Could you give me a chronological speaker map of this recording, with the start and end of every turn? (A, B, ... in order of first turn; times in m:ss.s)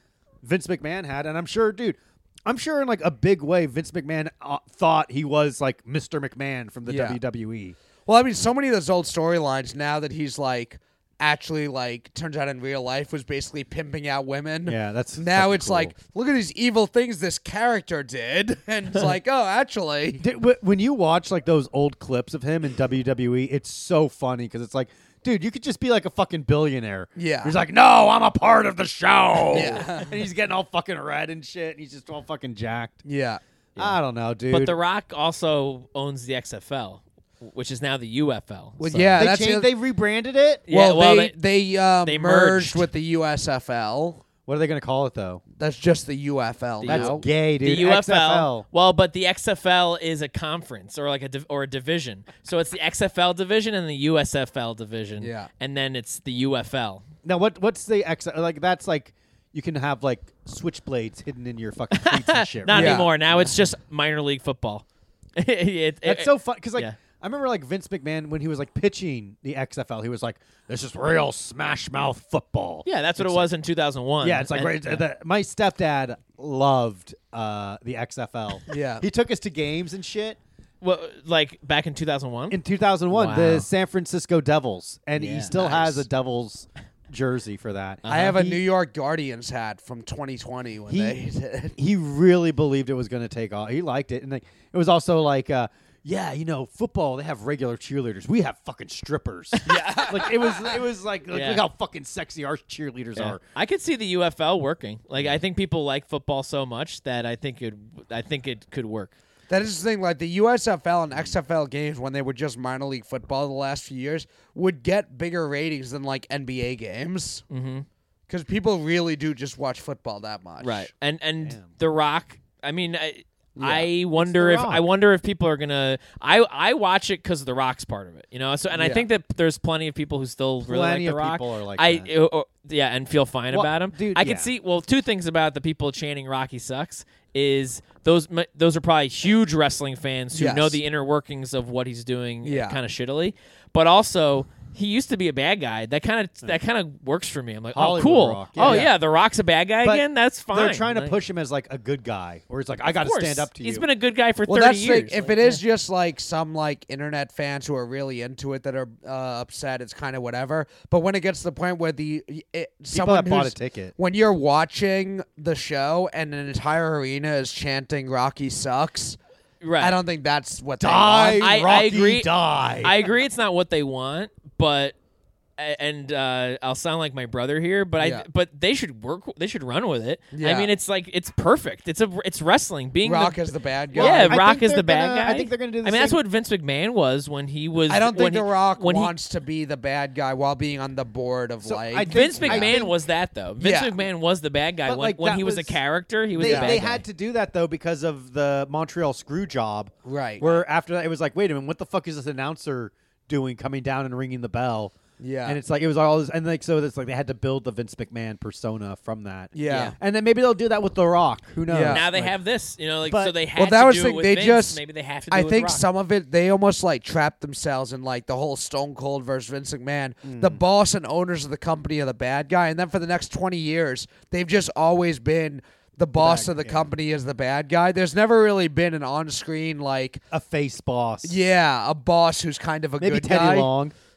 0:00.4-0:07.8 A
0:06.9-0:07.2 B
0:08.1-0:20.2 B
0:14.7-0:15.9 A
0:20.2-0:33.0 A
0:27.2-0:27.6 B
0:29.5-0:30.2 B
0:33.0-0:33.4 B
0:33.8-0:34.8 A
0:34.5-0:39.2 C
0:38.8-0:39.7 B
0:38.9-0:40.6 A
0:40.7-0:41.4 C
0:40.7-0:44.2 B
0:42.0-0:42.9 C
0:44.5-0:45.4 A
0:45.6-0:47.2 B
0:46.8-0:57.0 C
0:46.8-0:48.7 A
0:55.2-0:55.5 B
0:57.2-1:03.5 A
1:01.9-1:04.8 C
1:02.7-1:03.1 B
1:05.4-1:07.0 C
1:06.0-1:13.5 A
1:12.9-1:15.0 C
1:14.2-1:20.4 A
1:18.7-1:19.0 B
1:20.8-1:22.6 C
1:22.5-1:28.6 A
1:23.1-1:23.7 C
1:25.2-1:26.0 C
1:28.0-1:28.4 C
1:28.1-1:31.8 B
1:30.9-1:31.2 A
1:31.8-1:43.4 A
1:39.6-1:40.8 B
1:41.3-1:41.6 C
1:43.2-1:49.2 C
1:49.5-1:57.4 B
1:57.5-1:57.9 C
1:58.3-2:00.9 B
2:00.6-2:31.2 C
2:01.4-2:01.7 A
2:03.6-2:03.9 B
2:04.2-2:04.9 A
2:08.8-2:09.1 B
2:10.6-2:12.1 A
2:13.5-2:14.5 A
2:20.3-2:20.8 B
2:22.4-2:22.8 B
2:27.7-2:28.9 A
2:28.6-2:28.9 B
2:29.8-2:33.9 A
2:32.9-2:35.6 C
2:34.5-2:49.2 B
2:42.9-2:43.9 A
2:49.6-2:50.0 C
2:49.8-2:51.5 B
2:50.8-2:53.0 A
2:51.4-2:55.0 C
2:55.6-3:03.4 C
2:58.0-2:58.3 B
3:00.3-3:00.7 B
3:03.0-3:04.4 B
3:03.9-3:06.2 A
3:04.0-3:09.1 C
3:07.9-3:12.8 B
3:11.6-3:13.0 A
3:12.0-3:17.0 C
3:13.6-3:14.0 B
3:14.9-3:15.8 A
3:16.3-3:32.4 A
3:16.4-3:16.8 B
3:20.1-3:20.6 B
3:25.2-3:25.6 B
3:29.6-3:30.0 B
3:29.7-3:30.0 C
3:31.7-3:32.0 B
3:31.9-3:35.8 C
3:33.1-3:33.4 A
3:33.6-3:50.2 B
3:40.2-3:40.6 A
3:46.2-3:46.9 A
3:50.3-3:51.4 A
3:51.2-3:53.7 B
3:53.0-3:53.9 A